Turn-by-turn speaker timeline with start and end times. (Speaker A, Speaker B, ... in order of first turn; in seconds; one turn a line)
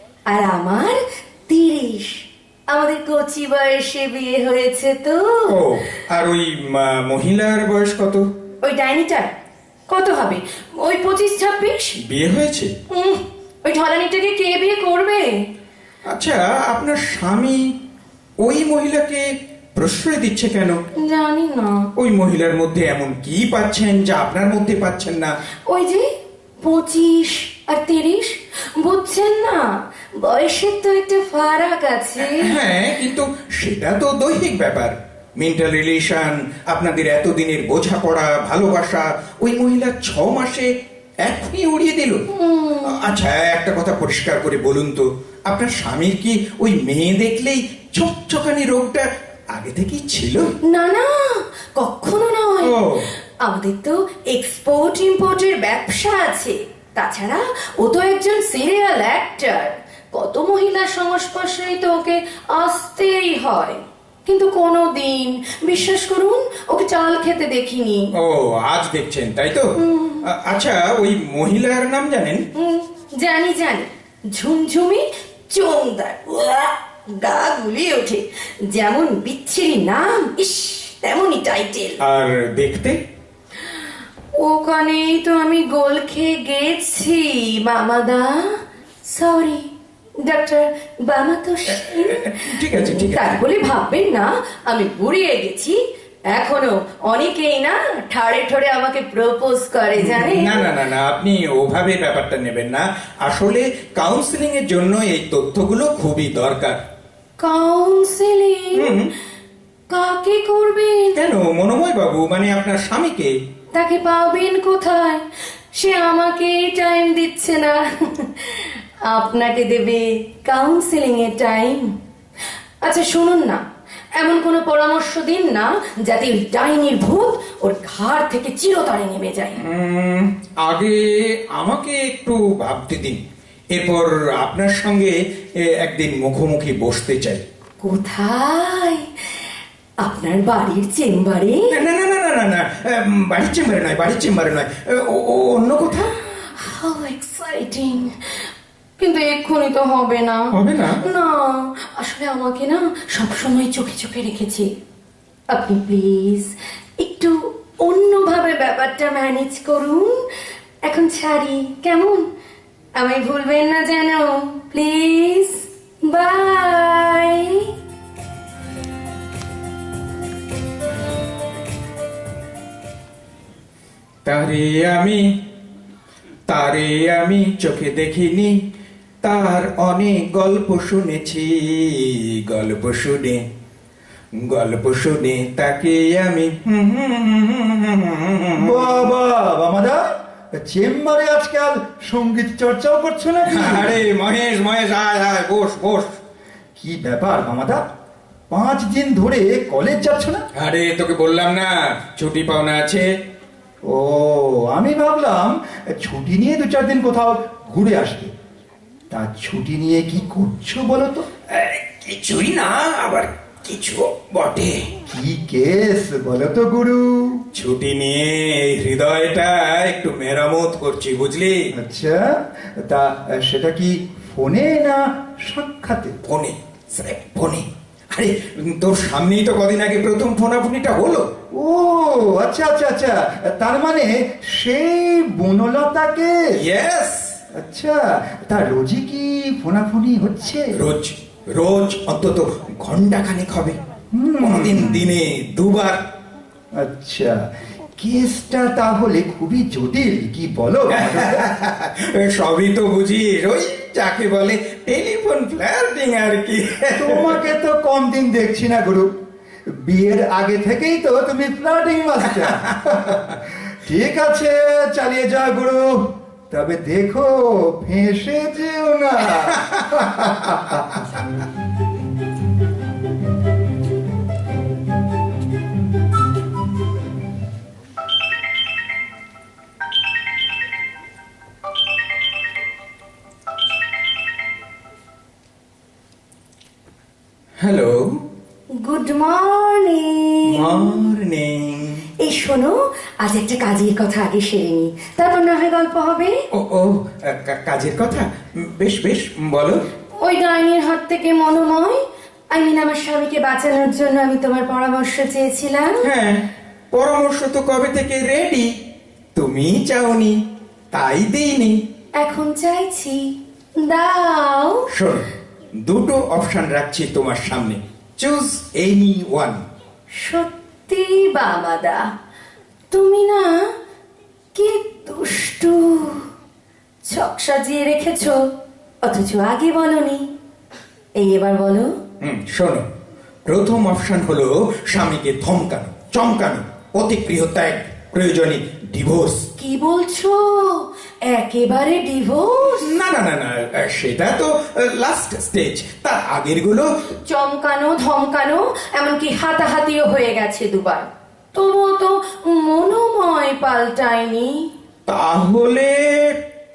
Speaker A: 0.3-2.2
Speaker A: 2.7-5.6
Speaker B: 5.5-8.3
Speaker A: 8.6-9.3
Speaker A: 9.9-12.0
Speaker B: 12.0-12.7
Speaker A: 12.9-15.3
Speaker B: 16.1-17.7
Speaker B: 18.4-20.8
Speaker A: 21.0-21.9
Speaker B: 22.0-25.3
Speaker A: 25.7-26.1
Speaker A: 26.6-32.5
Speaker B: 32.2-40.7
Speaker B: 41.2-42.2
Speaker A: 42.3-43.1
Speaker B: 42.9-50.5
Speaker A: 50.6-52.9
Speaker B: 52.6-53.0
Speaker A: 53.4-68.1
Speaker B: 68.2-69.7
Speaker A: 69.8-70.2
Speaker B: 70.2-72.4
Speaker A: 72.5-82.0
Speaker B: 82.0-83.0
Speaker A: 84.4-88.3
Speaker A: 89.1-89.7
Speaker A: 90.2-95.8
Speaker B: 91.7-93.4
Speaker A: 96.3-100.7
Speaker B: 100.0-106.8
Speaker A: 107.4-109.0
Speaker B: 108.8-109.1
Speaker A: 109.9-111.2
Speaker B: 111.2-113.3
Speaker A: 113.7-115.2
Speaker A: 115.8-121.9
Speaker A: 122.8-123.6
Speaker A: 124.2-129.6
Speaker B: 129.6-133.2
Speaker B: 133.7-137.4
Speaker A: 137.8-139.1
Speaker A: 140.0-141.8
Speaker B: 141.7-146.1
Speaker A: 146.4-148.4
Speaker A: 149.0-150.5
Speaker B: 150.5-151.0
Speaker A: 151.0-154.7
Speaker A: 155.5-160.2
Speaker A: 160.9-162.2
Speaker A: 163.0-167.7
Speaker B: 174.2-175.2
Speaker B: 176.5-178.6
Speaker B: 179.2-183.4
Speaker B: 184.4-189.1
Speaker C: 188.6-194.0
Speaker B: 193.5-196.2
Speaker C: 196.8-197.8
Speaker C: 198.5-200.4
Speaker B: 200.6-203.1
Speaker C: 203.9-208.3
Speaker C: 209.1-211.3
Speaker B: 211.5-214.8
Speaker C: 215.1-217.4
Speaker B: 217.6-221.7
Speaker C: 221.7-226.2
Speaker B: 226.2-231.2
Speaker C: 231.6-236.6
Speaker B: 236.6-237.4
Speaker C: 237.5-240.8
Speaker B: 240.8-243.8
Speaker C: 244.1-245.1
Speaker B: 244.4-246.0
Speaker C: 246.7-247.4
Speaker C: 248.0-251.5
Speaker B: 250.9-257.4
Speaker C: 257.0-259.1
Speaker C: 259.7-271.3
Speaker B: 262.4-263.3
Speaker B: 269.5-269.8
Speaker B: 287.6-288.2
Speaker A: 288.8-291.1
Speaker B: 290.5-292.1
Speaker A: 292.2-296.4
Speaker B: 296.5-299.8
Speaker A: 300.2-306.1
Speaker B: 306.0-308.7
Speaker B: 309.4-310.4
Speaker B: 310.9-311.8
Speaker A: 312.2-314.9
Speaker B: 314.9-315.3
Speaker B: 315.9-319.6
Speaker A: 320.2-322.1
Speaker A: 322.9-323.6
Speaker A: 324.6-326.2
Speaker A: 327.1-328.4
Speaker A: 329.0-330.3
Speaker A: 331.2-331.9
Speaker B: 332.2-332.8
Speaker B: 333.5-339.5
Speaker A: 339.6-342.9
Speaker B: 342.6-346.9
Speaker A: 347.3-354.6
Speaker B: 355.1-356.4